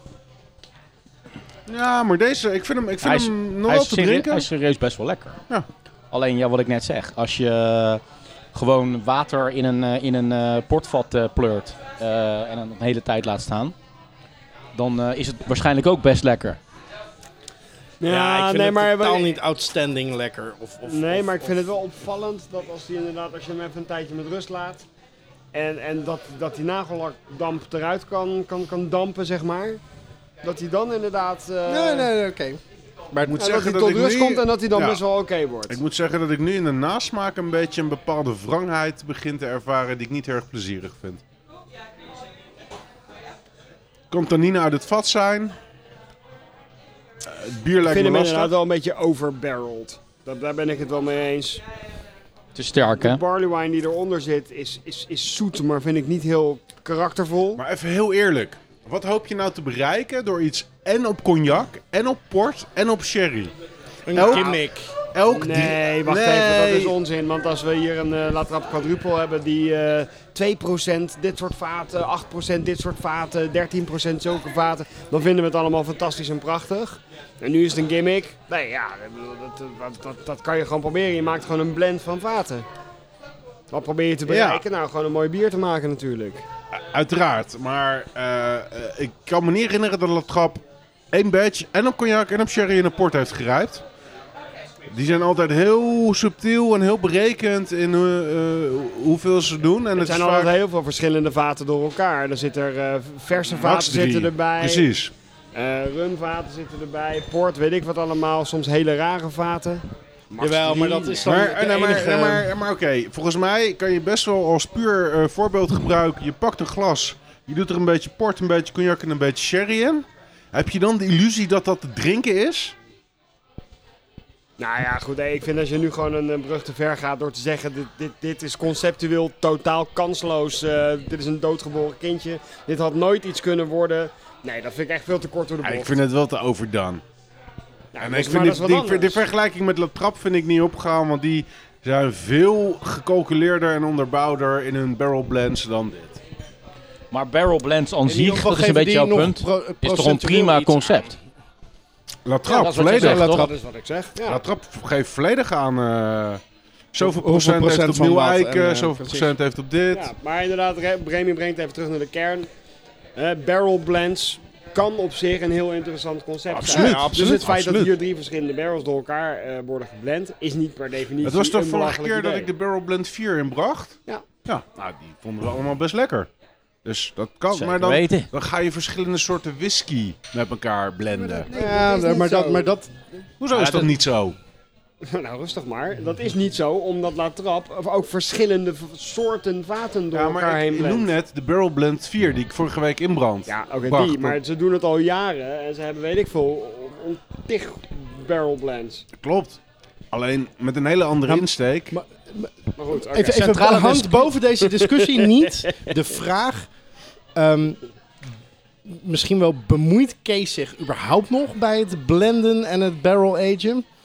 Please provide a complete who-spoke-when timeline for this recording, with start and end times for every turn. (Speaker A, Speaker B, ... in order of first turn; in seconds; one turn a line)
Speaker A: 1.7-4.5
Speaker B: 3.0-5.4
Speaker B: 6.1-8.0
Speaker B: 8.5-13.8
Speaker B: 14.8-16.6
Speaker C: 18.0-19.3
Speaker D: 18.0-21.6
Speaker C: 20.9-24.9
Speaker C: 25.5-29.8
Speaker C: 30.4-32.1
Speaker D: 31.7-32.6
Speaker D: 33.1-33.5
Speaker A: 33.3-35.0
Speaker C: 33.4-35.8
Speaker A: 35.7-41.2
Speaker A: 44.1-45.5
Speaker A: 47.3-48.5
Speaker C: 47.9-51.6
Speaker B: 52.5-53.2
Speaker C: 52.8-57.6
Speaker A: 57.6-63.5
Speaker D: 64.1-64.9
Speaker A: 64.1-64.5
Speaker C: 64.2-64.6
Speaker A: 65.1-67.0
Speaker C: 65.3-82.7
Speaker C: 83.7-86.5
Speaker A: 84.3-84.6
Speaker A: 86.7-93.8
Speaker A: 94.9-100.5
Speaker C: 100.0-104.9
Speaker A: 103.5-105.1
Speaker C: 105.5-111.3
Speaker D: 110.4-112.5
Speaker A: 111.2-122.8
Speaker C: 124.6-136.0
Speaker A: 135.6-137.0
Speaker C: 137.9-139.2
Speaker A: 138.0-146.2
Speaker B: 147.1-151.2
Speaker D: 148.1-151.2
Speaker A: 152.3-153.5
Speaker B: 152.5-153.5
Speaker C: 153.0-154.4
Speaker A: 154.2-156.4
Speaker A: 156.9-160.1
Speaker D: 157.0-159.3
Speaker C: 159.9-162.5
Speaker C: 163.2-172.5
Speaker A: 166.5-167.9
Speaker D: 166.7-167.6
Speaker A: 171.2-176.3
Speaker A: 176.8-181.5
Speaker B: 177.5-178.3
Speaker C: 181.2-182.8
Speaker D: 181.5-182.9
Speaker A: 183.4-184.4
Speaker B: 183.5-183.9
Speaker C: 185.0-191.1
Speaker A: 190.1-194.4
Speaker C: 193.5-199.1
Speaker A: 199.2-199.6
Speaker A: 200.1-201.9
Speaker D: 201.3-206.7
Speaker C: 202.8-205.3
Speaker D: 207.3-207.8
Speaker D: 208.8-213.8